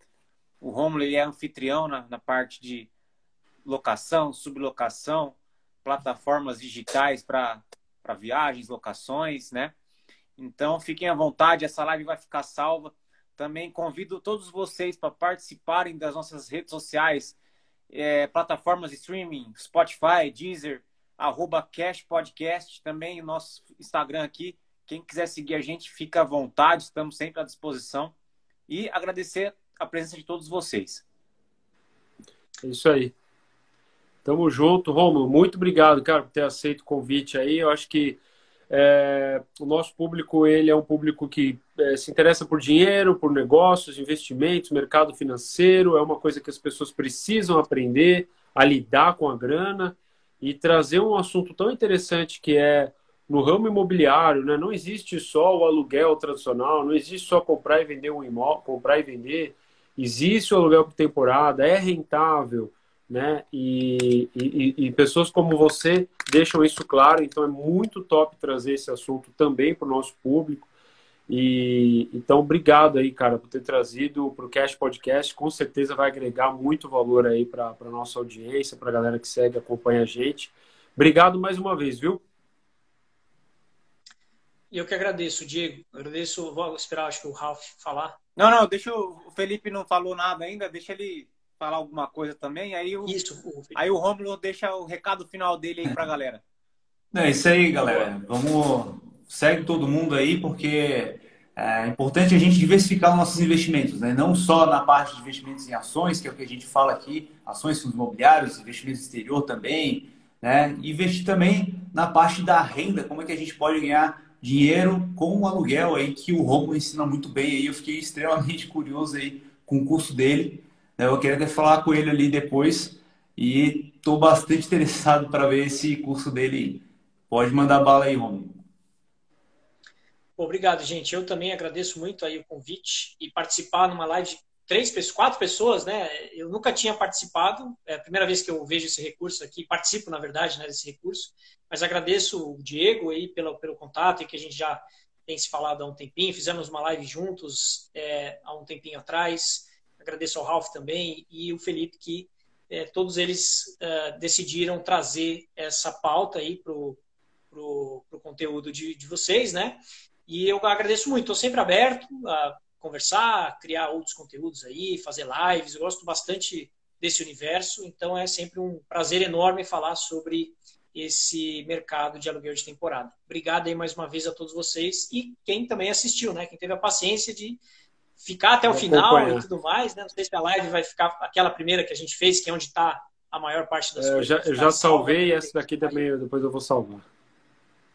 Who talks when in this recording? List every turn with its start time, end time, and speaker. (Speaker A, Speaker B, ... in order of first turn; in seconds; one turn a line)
Speaker A: 0.6-2.9
Speaker A: 3.6-9.7
Speaker A: 10.4-17.4
Speaker A: 17.9-28.1
Speaker A: 28.7-31.0
Speaker B: 32.6-33.1
Speaker B: 34.2-38.2
Speaker B: 38.7-70.7
Speaker B: 71.3-82.2
Speaker C: 84.7-88.2
Speaker A: 88.4-93.1
Speaker C: 93.0-93.8
Speaker A: 93.7-96.4
Speaker D: 97.1-128.6
Speaker C: 130.4-157.0
Speaker C: 157.5-177.6
Speaker C: 178.2-186.0
Speaker B: 178.7-179.5
Speaker B: 184.0-187.1